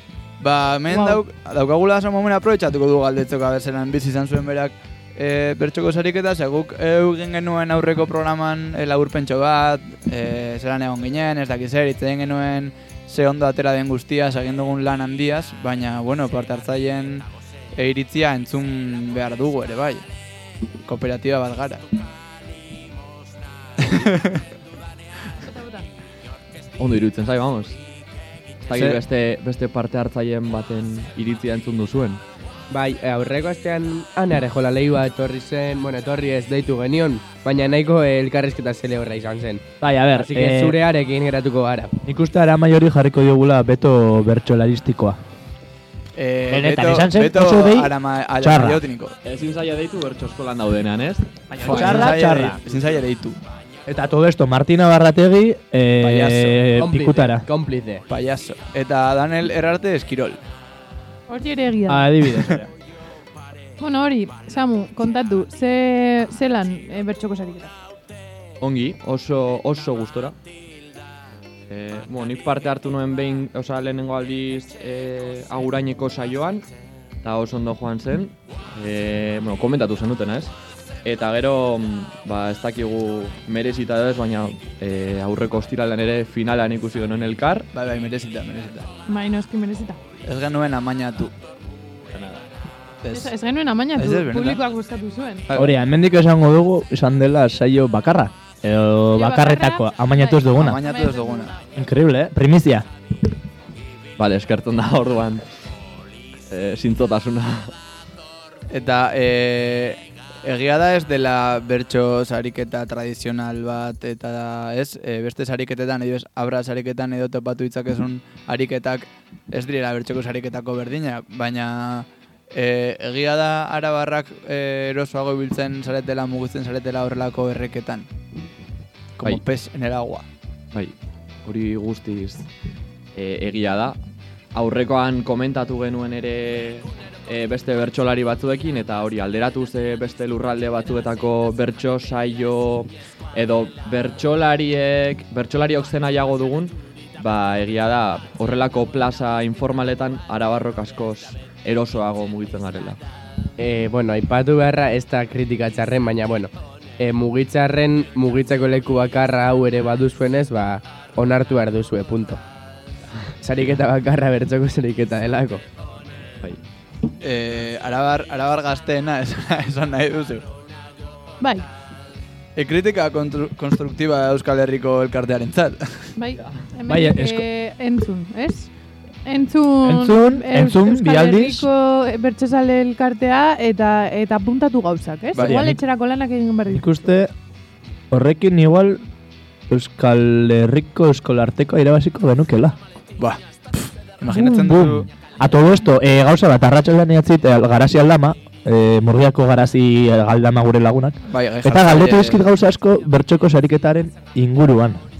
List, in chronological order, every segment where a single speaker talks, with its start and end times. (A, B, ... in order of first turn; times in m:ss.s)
0:00.4-0:20.0 A
0:00.9-0:01.2 B
0:20.8-0:21.8 A
0:23.8-0:24.4 A
0:25.4-0:25.9 C
0:26.8-0:27.8 D
0:28.7-0:32.2 D
0:28.7-0:29.0 A
0:32.7-0:41.9 B
0:39.8-0:40.8 E
0:42.0-0:45.2 E
0:46.2-0:49.2 A
0:46.5-0:48.8 E
0:49.2-0:52.1 D
0:51.5-0:52.6 E
0:51.6-0:53.4 A
0:53.9-0:57.4 E
0:56.0-0:56.7 A
0:56.8-0:58.0 B
0:58.1-1:00.4 A
1:01.3-1:02.1 C
1:01.9-1:02.7 E
1:03.8-1:07.7 C
1:08.6-1:10.4 D
1:11.7-1:16.6 D
1:17.2-1:20.5 D
1:21.0-1:27.7 D
1:27.7-1:28.9 A
1:29.1-1:30.0 C
1:30.2-1:31.3 A
1:32.1-1:32.4 D
1:33.0-1:33.3 A
1:33.1-1:35.4 C
1:34.0-1:34.6 A
1:35.5-1:35.7 A
1:35.5-1:40.8 E
1:39.1-1:41.7 C
1:40.6-1:41.5 A
1:41.7-1:42.9 E
1:44.2-1:45.6 D
1:46.5-1:47.7 D
1:48.7-2:08.1 A
2:09.2-2:10.2 A
2:10.7-2:12.5 D
2:13.1-2:14.0 D
2:14.5-2:33.0 D
2:33.6-2:42.4 B
2:43.4-2:45.6 B
2:47.2-2:50.4 A
2:51.4-2:51.7 C
2:52.6-2:56.1 A
2:56.2-2:58.7 C
2:56.9-2:57.4 E
2:59.2-3:06.9 C
2:59.8-3:01.6 E
3:05.3-3:05.7 A
3:05.4-3:05.8 E
3:06.7-3:07.3 E
3:08.1-3:09.0 E
3:09.7-3:12.8 E
3:13.2-3:15.0 A
3:14.3-3:25.0 E
3:21.3-3:22.4 A